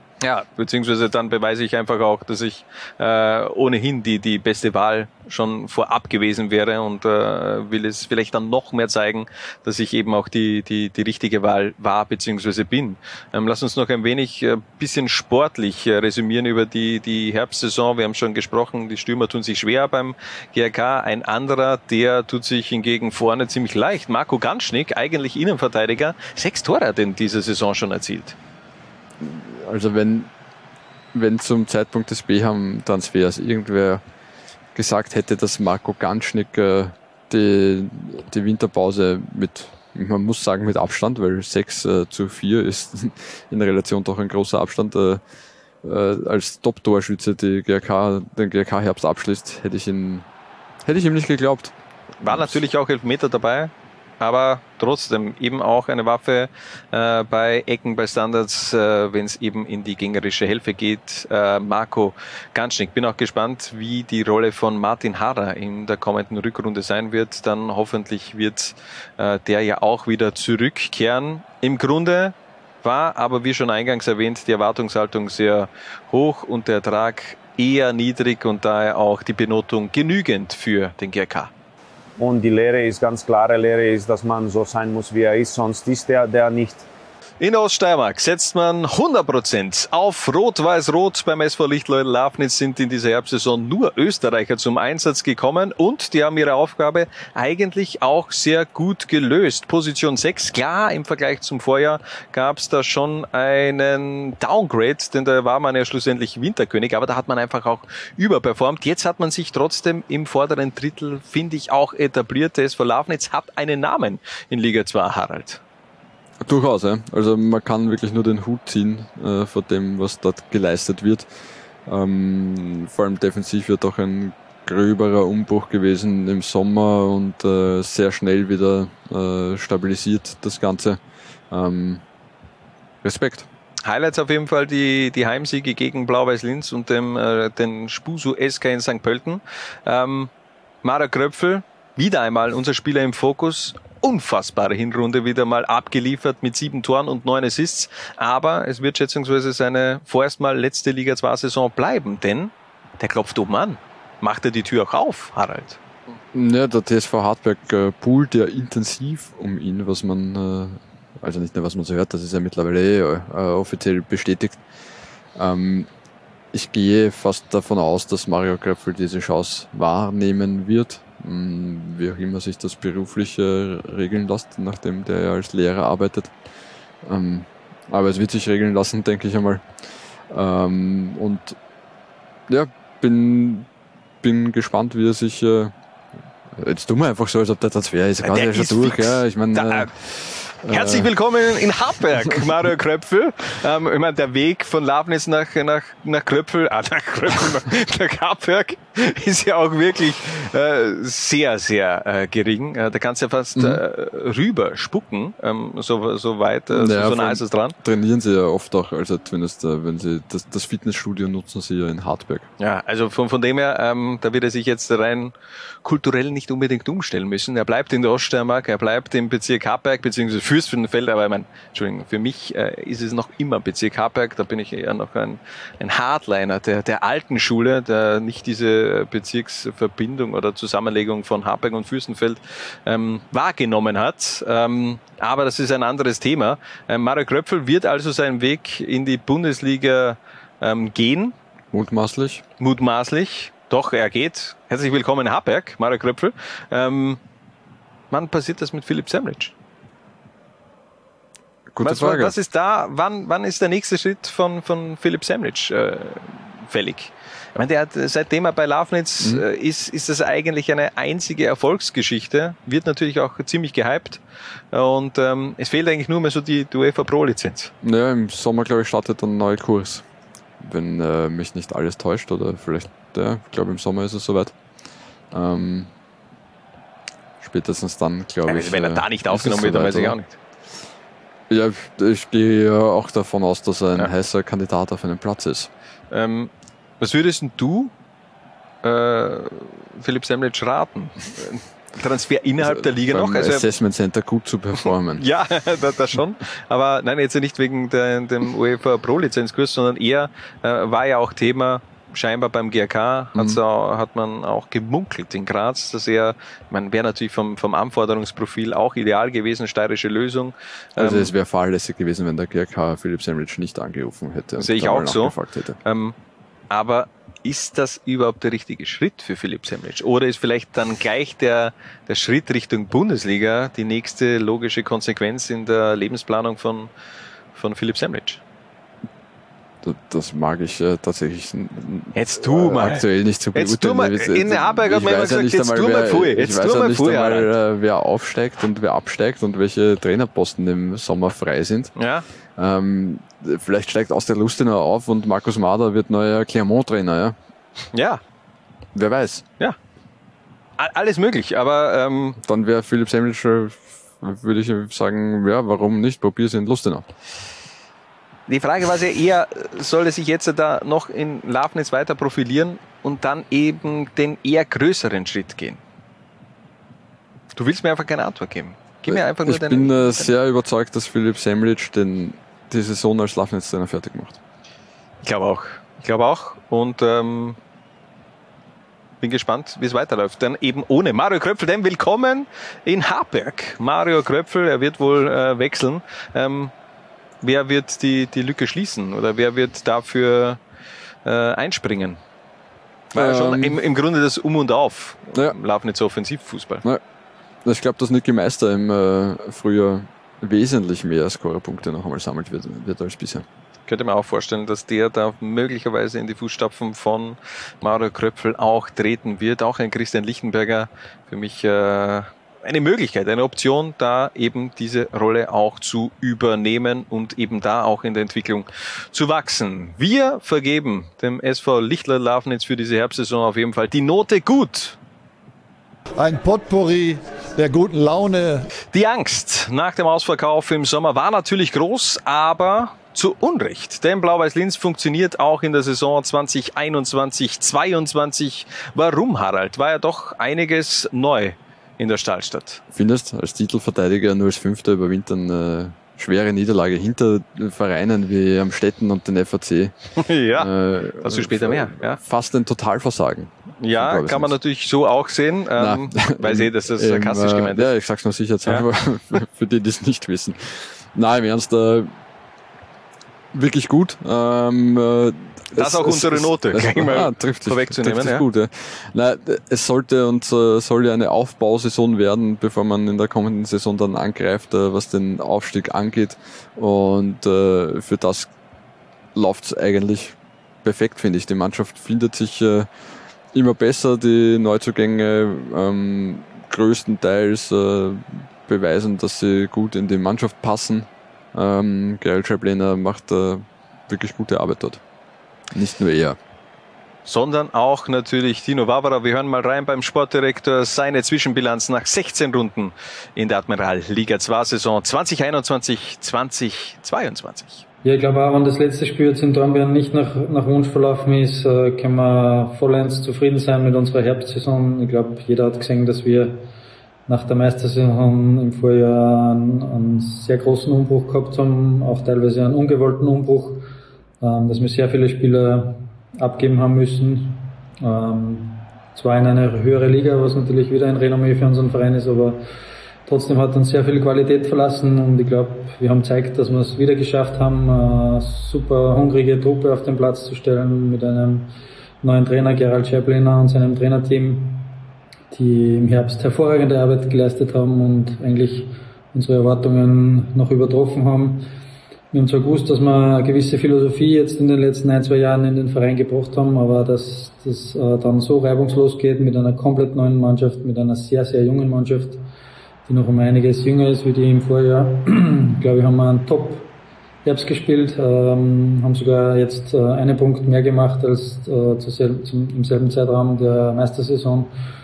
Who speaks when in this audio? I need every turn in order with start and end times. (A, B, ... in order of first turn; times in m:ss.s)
0:00.2-0:28.4 A
0:29.2-0:30.3 B
0:31.1-0:34.0 B
0:34.7-0:45.2 B
0:45.8-0:50.2 B
0:50.8-0:52.6 B
0:52.2-1:21.5 A
1:22.2-1:26.9 C
1:27.4-1:55.6 A
1:56.4-2:01.3 B
2:01.8-2:12.0 B
2:13.0-2:13.5 B
2:13.8-2:20.3 A
2:20.8-2:35.8 A
2:36.3-2:44.6 B
2:45.3-2:45.9 B
2:46.5-2:56.3 B
2:57.0-2:59.7 B
3:00.3-3:01.6 B
3:02.5-3:03.7 B
3:04.2-3:05.7 B
3:06.5-3:11.1 B
3:08.2-3:09.9 A
3:10.7-3:27.8 A
3:26.7-3:32.5 B
3:32.6-4:01.3 A
4:01.7-4:02.4 B
4:02.6-4:07.2 A
4:08.1-4:09.5 A
4:11.7-4:12.3 B
4:11.8-4:24.2 A
4:24.7-4:27.7 A
4:27.8-4:30.0 B
4:30.6-4:34.5 B
4:35.3-4:35.9 B
4:37.4-4:40.2 B
4:38.5-4:40.3 A
4:41.5-4:45.7 B
4:46.1-4:47.9 A
4:48.8-4:53.6 A
4:52.6-4:55.2 B
4:55.2-5:11.3 A
5:03.3-5:03.6 B
5:11.0-5:15.8 B
5:14.6-5:16.2 A
5:16.7-5:26.9 A
5:27.5-5:28.4 A
5:29.8-5:41.9 B
5:32.1-5:33.0 A
5:33.5-5:37.5 A
5:42.0-5:42.2 A
5:42.6-5:47.4 B
5:47.9-5:48.2 A
5:48.9-5:49.4 B
5:50.8-5:52.4 A
5:52.4-5:57.1 B
5:58.5-6:05.8 A
6:07.6-6:10.3 A
6:09.0-6:14.4 B
6:15.2-6:17.6 A
6:19.2-6:26.7 A
6:27.4-6:30.6 A
6:31.2-6:32.2 A
6:33.1-6:36.8 A
6:33.1-6:33.8 B
6:37.6-6:43.4 B
6:43.9-7:05.0 A
7:06.2-7:08.6 D
7:08.9-7:22.8 A
7:22.9-7:29.9 B
7:30.2-7:30.7 A
7:30.6-7:34.6 B
7:31.2-7:32.2 A
7:33.8-7:37.9 A
7:35.8-7:42.1 B
7:43.5-7:58.5 B
7:45.8-7:48.4 A
7:59.3-8:02.9 B
8:03.5-8:15.0 B
8:15.7-8:16.4 B
8:17.2-8:27.8 A
8:28.0-8:36.6 E
8:37.3-8:43.8 E
8:44.4-8:52.6 E
8:53.3-9:01.7 E
9:02.2-9:04.9 E
9:05.5-9:11.6 E
9:12.3-9:22.4 E
9:23.0-9:26.9 E
9:27.4-9:34.7 E